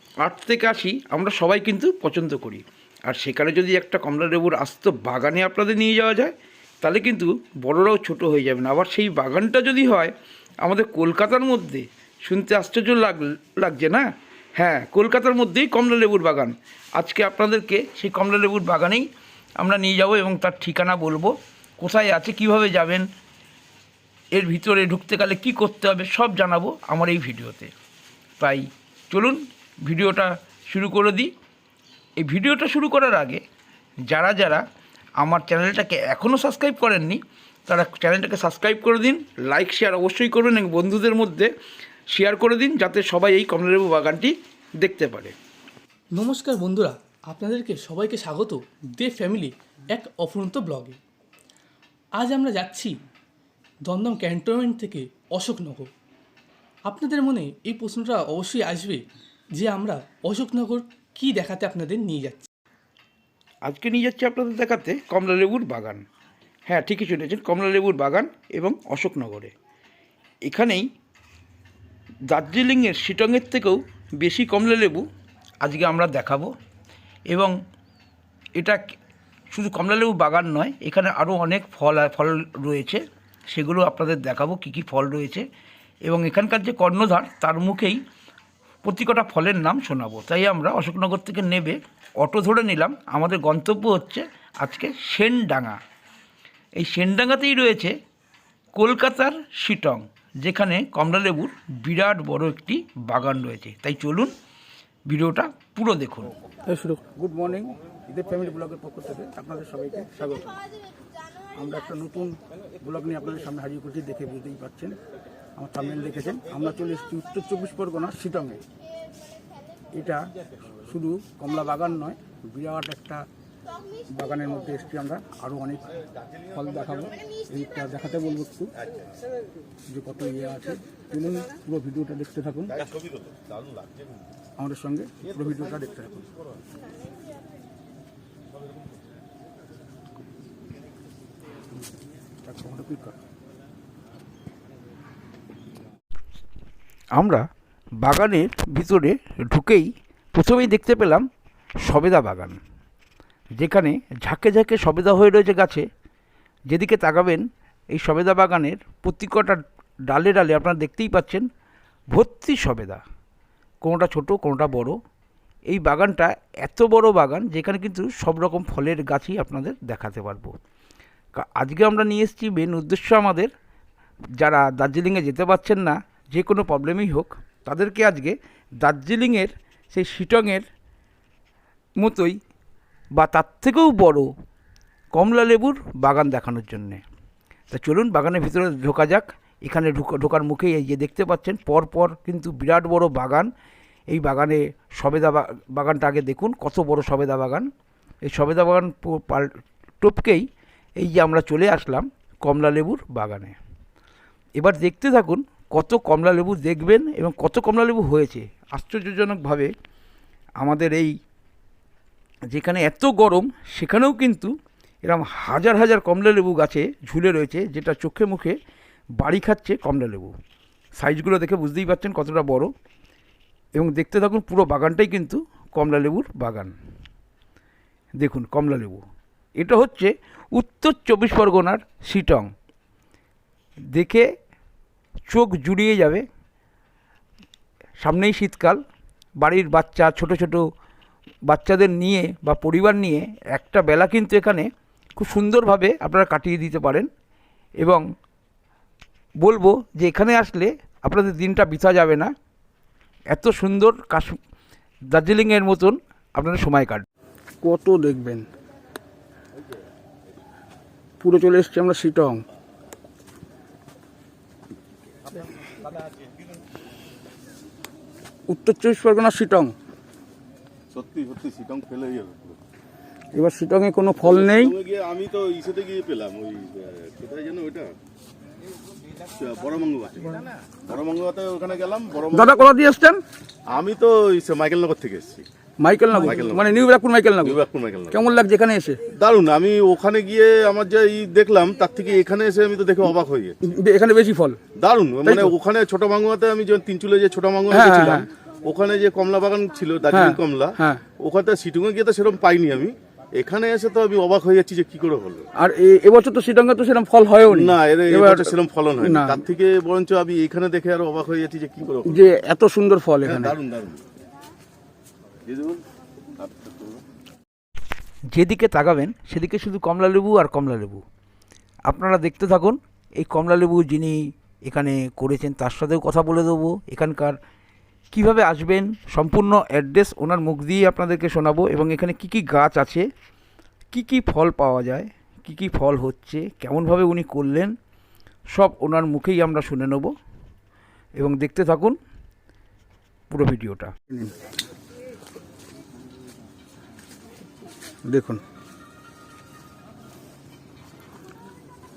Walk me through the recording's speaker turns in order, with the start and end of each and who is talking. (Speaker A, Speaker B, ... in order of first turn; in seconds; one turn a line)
Speaker A: 0.2-6.3
Speaker A: 6.8-14.0
Speaker A: 14.6-19.1
Speaker A: 19.6-23.1
Speaker A: 24.3-27.7
Speaker A: 28.4-31.3
Speaker A: 32.2-33.4
Speaker A: 34.1-34.6
Speaker A: 35.2-41.5
Speaker A: 42.1-45.3
Speaker B: 46.2-51.0
Speaker B: 52.2-53.0
Speaker B: 53.9-55.9
Speaker B: 56.9-59.0
Speaker B: 59.6-62.5
Speaker A: 63.6-66.0
Speaker A: 66.7-69.5
Speaker A: 70.5-70.8
Speaker A: 72.3-75.0
Speaker A: 75.6-76.5
Speaker A: 79.5-85.5
Speaker A: 86.1-88.0
Speaker A: 88.8-95.8
Speaker A: 96.8-98.0
Speaker A: 98.8-104.3
Speaker A: 105.1-106.3
Speaker C: 106.7-110.6
Speaker C: 111.6-115.0
Speaker C: 115.6-118.6
Speaker C: 120.0-120.2
Speaker C: 120.9-123.3
Speaker C: 124.1-128.7
Speaker C: 129.9-132.8
Speaker D: 132.7-134.2
Speaker C: 134.6-136.3
Speaker C: 142.5-143.1
Speaker A: 147.2-147.4
Speaker A: 148.0-151.2
Speaker A: 151.8-152.6
Speaker A: 153.6-155.8
Speaker A: 156.7-161.5
Speaker A: 162.1-163.0
Speaker A: 163.8-165.0
Speaker A: 165.7-170.5
Speaker A: 171.4-173.5
Speaker A: 174.4-180.7
Speaker A: 182.0-182.4
Speaker A: 183.2-184.3
Speaker A: 185.1-187.0
Speaker A: 187.7-193.5
Speaker A: 194.1-197.7
Speaker A: 198.3-199.5
Speaker A: 200.0-200.4
Speaker A: 201.0-203.6
Speaker A: 204.6-209.7
Speaker A: 210.6-211.1
Speaker A: 212.5-214.5
Speaker A: 215.1-218.6
Speaker A: 219.2-220.3
Speaker A: 221.0-222.7
Speaker A: 223.8-226.7
Speaker A: 228.2-229.0
Speaker A: 229.6-232.5
Speaker A: 233.9-234.3
Speaker A: 235.3-236.2
Speaker A: 238.0-238.8
Speaker A: 239.4-240.6
Speaker A: 241.5-244.7
Speaker A: 245.2-247.1
Speaker A: 249.4-252.3
Speaker A: 253.3-254.4
Speaker A: 255.1-257.1
Speaker C: 257.6-258.4
Speaker C: 261.2-262.4
Speaker C: 268.5-269.7
Speaker D: 270.9-272.6
Speaker C: 273.3-274.8
Speaker D: 274.2-277.9
Speaker D: 279.3-282.6
Speaker C: 282.3-283.2
Speaker D: 283.7-285.5
Speaker C: 285.8-287.6
Speaker D: 286.1-286.8
Speaker D: 287.4-288.2
Speaker C: 288.1-289.0
Speaker D: 289.2-293.6
Speaker C: 293.7-294.6
Speaker D: 294.8-305.4
Speaker C: 295.3-295.5
Speaker C: 297.7-298.3
Speaker C: 300.1-301.0
Speaker C: 305.6-309.4
Speaker D: 307.5-312.3
Speaker C: 312.1-313.6
Speaker D: 313.2-314.0
Speaker D: 315.5-315.8
Speaker D: 316.4-317.0
Speaker A: 318.3-321.0
Speaker A: 321.9-327.4
Speaker A: 328.1-333.1
Speaker A: 333.9-337.7
Speaker A: 338.5-340.1
Speaker A: 341.2-342.0
Speaker A: 343.3-343.9
Speaker C: 348.1-348.4